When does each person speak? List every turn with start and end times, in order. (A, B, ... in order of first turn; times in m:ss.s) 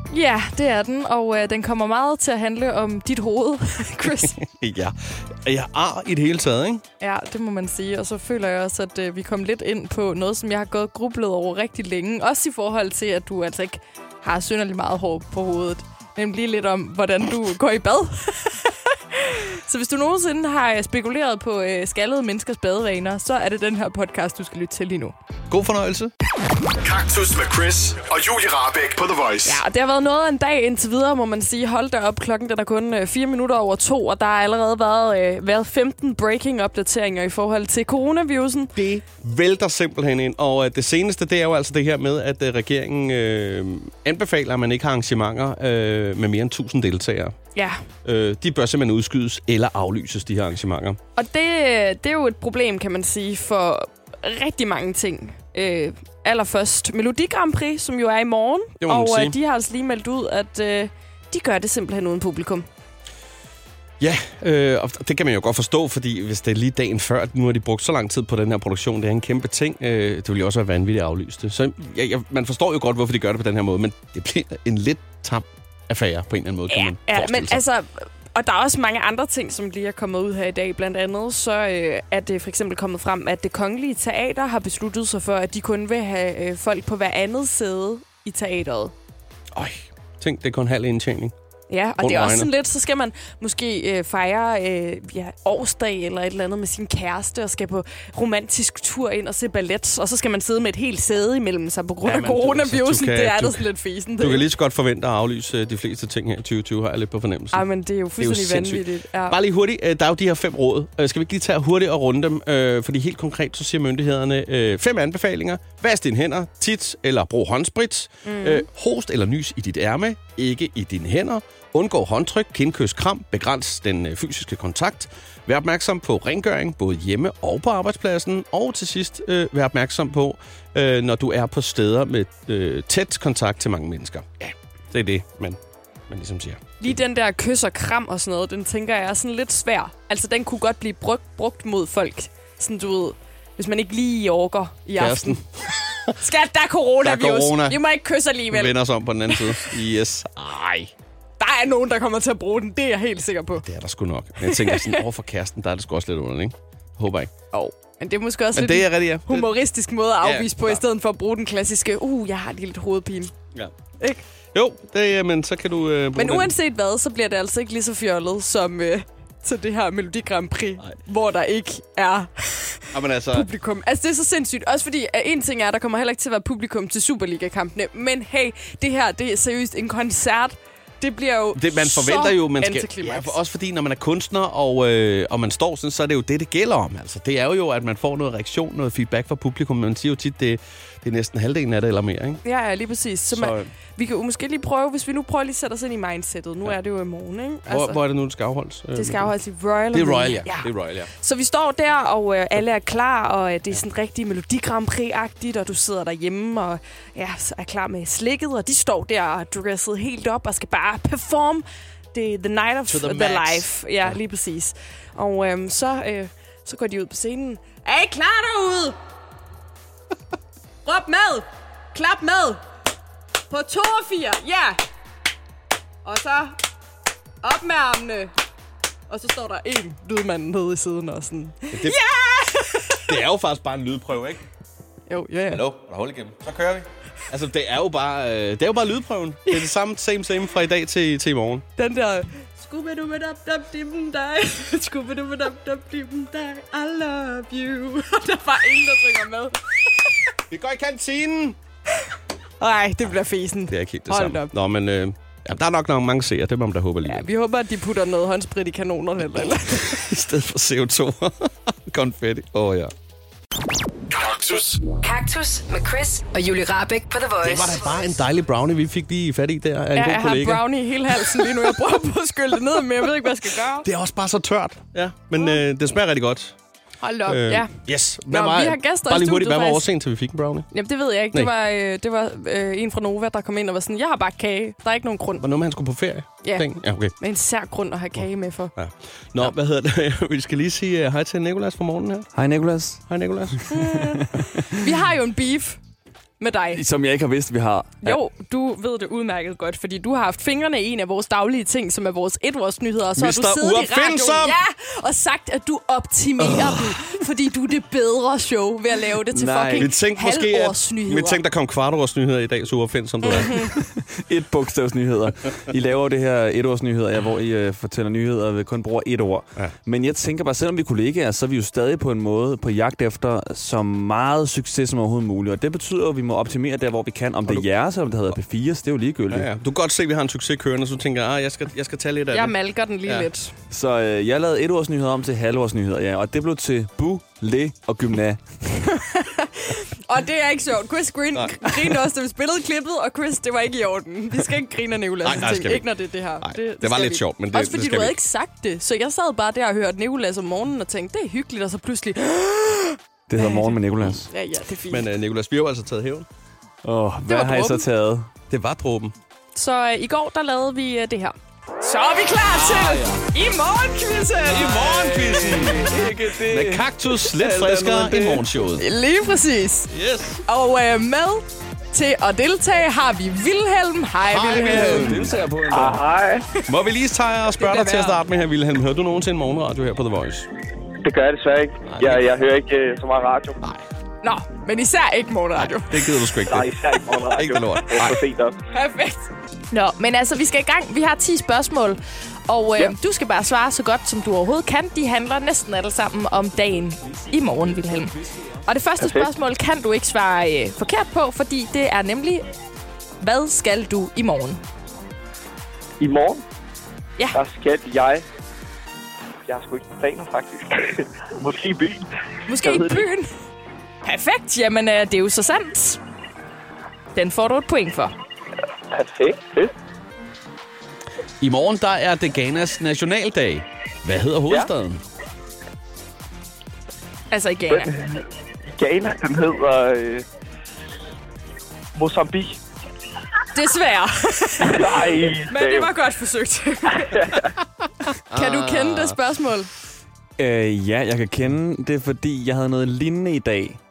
0:00.1-0:04.4 A
0:04.2-0:06.8 B
0:07.0-0:25.2 A
0:25.5-0:26.1 B
0:26.8-0:29.6 C
0:29.4-0:38.7 A
0:38.8-0:47.3 B
0:47.5-0:47.8 A
0:48.0-0:51.0 B
0:51.2-1:02.7 A
0:58.8-0:59.4 B
1:04.0-1:17.6 B
1:16.7-1:28.9 A
1:29.5-1:31.3 B
1:31.7-1:44.4 A
1:32.0-1:32.5 B
1:42.0-1:43.7 B
1:44.2-1:47.6 B
1:47.5-1:49.4 A
1:48.2-2:15.6 B
1:58.2-1:58.6 A
2:16.1-2:16.9 B
2:16.8-2:25.4 A
2:25.0-2:26.1 B
2:26.2-2:28.8 A
2:27.0-2:27.8 B
2:28.5-2:30.9 B
2:29.3-2:29.7 A
2:31.4-2:33.6 A
2:33.6-2:37.3 B
2:34.4-2:35.0 A
2:37.5-2:43.3 A
2:38.5-2:39.5 B
2:40.2-2:40.8 B
2:44.5-2:46.5 B
2:46.2-3:03.4 A
2:52.9-2:53.5 B
3:01.6-3:12.4 B
3:12.4-3:18.0 A
3:13.3-3:13.7 B
3:17.7-3:19.3 B
3:18.9-3:39.0 A
3:19.9-3:21.1 B
3:32.9-3:34.2 B
3:40.8-3:42.6 A
3:43.5-3:44.8 A
3:46.0-3:46.6 A
3:47.4-3:48.3 A
3:49.1-3:53.2 A
3:51.7-3:52.0 B
3:53.1-3:54.4 B
3:55.1-3:55.6 A
3:55.5-4:01.6 B
4:01.8-4:10.1 A
4:10.5-4:11.6 B
4:12.6-4:14.5 A
4:13.7-4:17.2 B
4:17.0-4:20.1 A
4:19.9-4:22.9 B
4:24.1-4:24.8 C
4:24.9-4:27.9 D
4:27.4-4:30.6 B
4:29.9-4:33.8 A
4:33.8-4:36.6 B
4:37.0-4:37.7 A
4:37.2-4:40.7 B
4:38.3-4:39.9 A
4:40.7-4:45.4 A
4:45.4-4:47.1 B
4:46.4-4:48.7 A
4:48.8-4:52.3 B
4:52.3-4:53.0 E
4:53.1-4:53.6 B
4:53.7-4:55.8 A
4:53.7-4:54.7 E
4:56.4-4:56.8 A
4:56.7-4:58.0 E
4:58.0-5:11.4 A
5:03.2-5:04.6 B
5:06.4-5:06.9 B
5:09.3-5:09.9 E
5:09.8-5:13.7 B
5:13.2-5:13.7 A
5:13.8-5:29.5 E
5:29.3-5:32.5 B
5:32.3-5:33.5 A
5:33.7-5:38.4 E
5:39.0-5:55.0 A
5:41.3-5:41.8 B
5:45.2-5:48.2 B
5:53.3-5:54.3 E
5:54.9-5:56.3 B
5:56.8-5:58.3 E
5:57.3-5:57.9 A
5:58.5-5:59.1 B
5:59.5-6:04.9 A
6:02.5-6:03.2 B
6:04.5-6:08.9 B
6:04.6-6:08.5 E
6:08.8-6:09.9 A
6:09.9-6:10.4 B
6:10.5-6:15.2 A
6:14.3-6:15.4 B
6:14.7-6:16.0 E
6:15.7-6:16.4 F
6:16.7-6:20.5 B
6:17.6-6:18.2 A
6:21.0-6:23.6 F
6:21.9-6:22.3 B
6:24.2-6:26.0 A
6:25.6-6:28.2 B
6:26.5-6:28.6 F
6:28.7-6:42.4 A
6:39.0-6:39.3 F
6:43.2-6:44.6 A
6:46.0-6:46.4 F
6:47.3-6:48.2 F
6:49.5-6:53.0 F
6:52.5-6:53.3 A
6:54.0-6:56.0 A
6:57.1-6:58.1 A
6:58.9-6:59.7 F
7:01.4-7:05.0 B
7:07.3-7:07.9 A
7:07.7-7:10.2 F
7:11.9-7:12.6 F
7:13.5-7:17.3 A
7:14.6-7:15.9 F
7:18.3-7:19.2 B
7:18.3-7:19.7 A
7:20.4-7:23.8 E